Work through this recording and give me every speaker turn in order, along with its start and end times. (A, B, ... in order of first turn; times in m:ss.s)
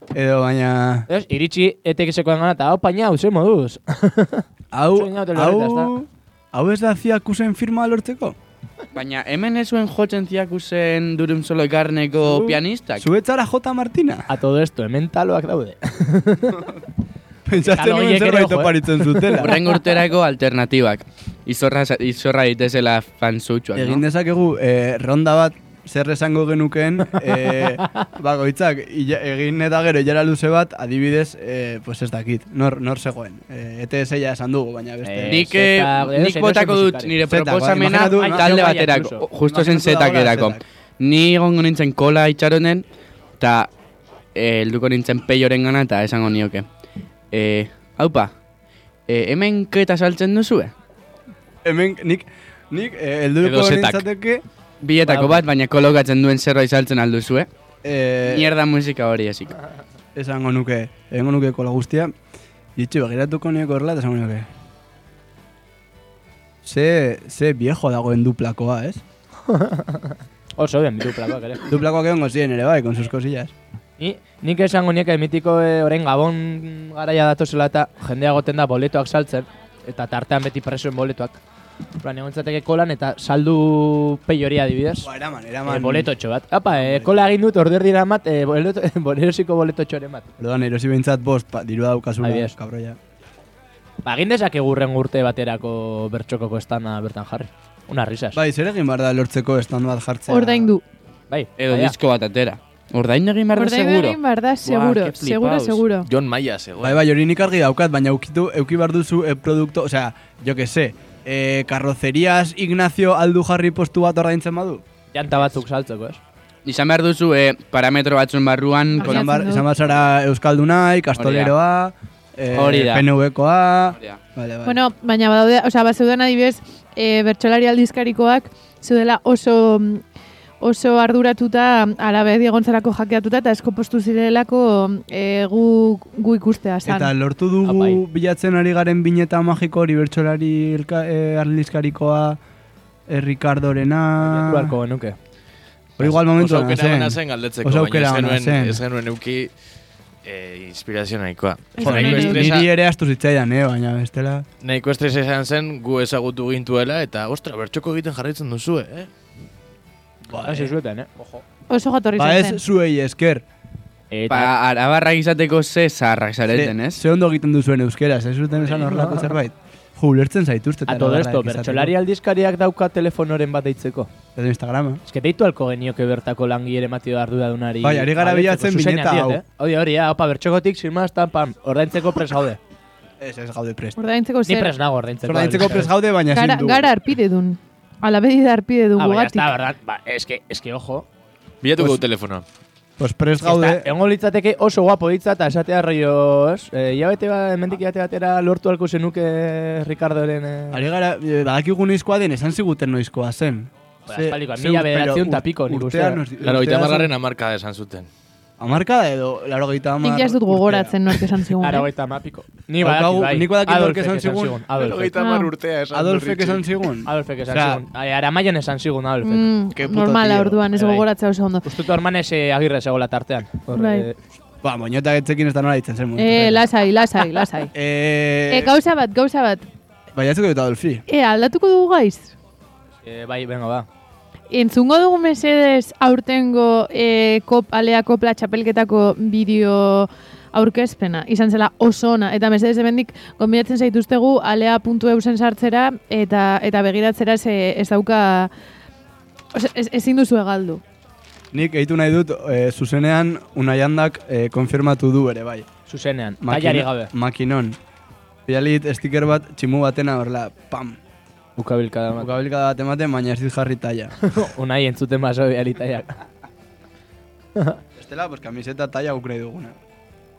0:00.1-0:01.1 A
0:01.1-0:05.9 B
0:04.7-0:08.4 A
0:08.9-0:13.0 C
0:12.2-0:14.3 A
0:14.3-0:16.7 B
0:17.4-0:19.6 A
0:17.6-0:19.4 B
0:19.4-0:24.0 C
0:23.7-0:35.5 A
0:35.0-0:37.1 B
0:35.2-0:42.8 C
0:37.3-0:38.8 A
0:38.1-0:39.2 B
0:39.5-0:40.6 A
0:43.4-0:43.7 C
0:44.3-0:46.6 C
0:47.3-0:48.3 C
0:49.1-0:50.7 C
0:51.6-0:54.4 A
0:53.4-0:54.0 D
0:54.8-0:57.5 C
0:55.0-0:55.4 B
0:57.8-0:58.5 A
0:58.2-0:59.6 C
1:00.1-1:02.1 A
1:02.7-1:04.5 A
1:06.6-1:09.0 A
1:09.4-1:11.6 B
1:11.6-1:13.5 A
1:14.0-1:21.4 B
1:22.0-1:25.1 B
1:25.0-1:26.1 A
1:25.6-1:30.3 B
1:26.7-1:27.2 A
1:30.4-1:33.0 A
1:32.2-1:32.5 B
1:34.0-1:38.4 B
1:38.3-1:40.7 A
1:40.3-1:40.8 E
1:41.3-1:41.9 B
1:41.6-1:45.8 C
1:43.5-1:46.1 E
1:46.0-1:47.0 D
1:46.8-1:54.8 A
1:55.1-1:56.2 B
1:56.6-1:59.4 C
1:59.0-1:59.7 E
1:59.0-2:04.8 A
2:01.2-2:01.5 C
2:02.5-2:03.0 C
2:04.6-2:10.0 E
2:10.6-2:17.1 E
2:16.8-2:22.4 A
2:17.6-2:18.0 B
2:23.1-2:24.8 A
2:24.2-2:25.2 B
2:26.0-2:28.8 A
2:26.0-2:29.5 D
2:30.2-2:32.7 D
2:31.8-2:32.4 E
2:31.8-2:34.4 A
2:34.6-2:39.1 D
2:40.3-2:40.7 A
2:40.4-2:41.4 B
2:41.7-2:42.6 E
2:42.2-2:43.4 A
2:44.1-2:44.5 B
2:44.3-2:47.0 C
2:46.5-2:51.9 A
2:48.9-2:49.2 B
2:50.9-2:54.1 B
2:54.3-2:55.0 A
2:55.1-3:02.6 B
2:57.8-2:59.4 A
3:03.2-3:04.0 A
3:04.0-3:04.8 E
3:04.4-3:05.9 B
3:05.2-3:06.9 A
3:06.2-3:09.5 E
3:09.0-3:11.1 B
3:11.6-3:12.4 D
3:11.8-3:12.0 A
3:13.0-3:13.9 A
3:13.4-3:20.8 B
3:20.7-3:26.9 A
3:24.1-3:27.1 B
3:26.4-3:28.1 D
3:28.6-3:31.1 A
3:30.0-3:31.9 E
3:31.6-3:35.2 B
3:32.8-3:34.6 A
3:34.8-3:36.6 D
3:35.1-3:35.5 E
3:35.9-3:37.8 A
3:37.0-3:39.5 B
3:39.2-3:41.6 E
3:39.7-3:40.6 A
3:40.7-3:41.0 B
3:41.6-3:44.2 B
3:43.7-3:44.0 E
3:44.6-3:46.6 A
3:46.2-3:47.7 E
3:47.7-3:48.7 A
3:48.5-3:49.6 E
3:50.1-3:51.0 A
3:51.1-3:52.3 E
3:53.0-3:53.9 B
3:54.5-4:08.5 E
4:09.5-4:10.8 E
4:11.5-4:15.7 A
4:15.9-4:17.1 B
4:16.4-4:17.8 A
4:18.5-4:21.0 A
4:21.6-4:22.3 B
4:22.2-4:24.1 A
4:24.2-4:26.1 B
4:28.0-4:29.8 A